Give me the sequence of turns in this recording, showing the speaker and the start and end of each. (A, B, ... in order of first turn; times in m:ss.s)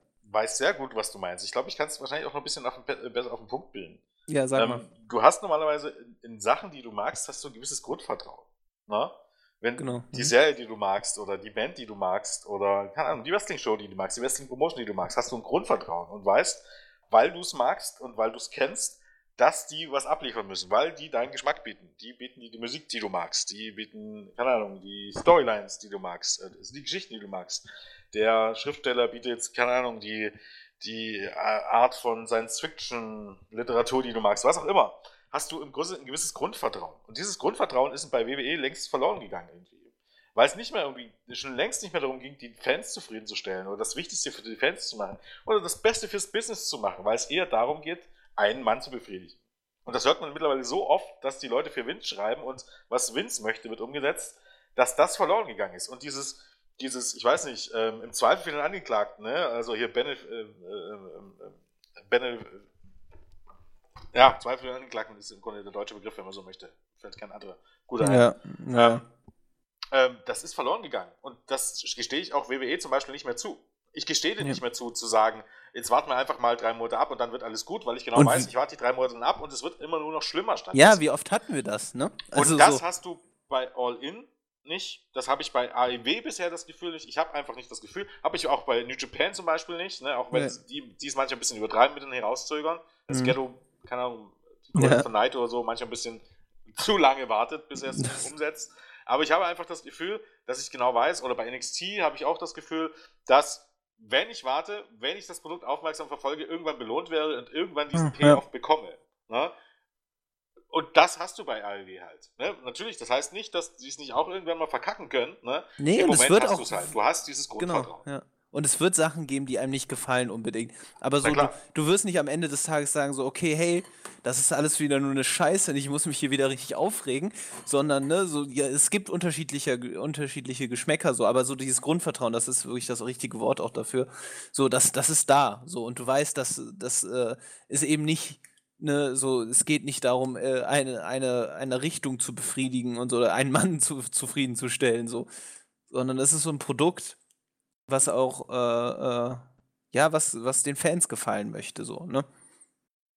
0:00.3-0:04.0 A
0:04.3-0:04.8 B
0:04.6-1:02.7 A
0:09.8-0:10.3 B
1:04.1-1:09.0 A
1:08.0-1:09.0 B
1:09.9-1:21.0 A
1:18.2-1:18.5 B
1:20.7-1:22.8 B
1:22.3-1:49.5 A
1:33.1-1:33.4 B
1:34.8-1:35.0 B
1:38.0-1:38.2 B
1:47.9-1:48.4 B
1:50.7-1:58.0 A
1:55.8-1:56.9 B
1:57.6-2:25.3 B
2:01.2-2:01.5 A
2:25.9-2:27.2 B
2:27.9-2:32.3 B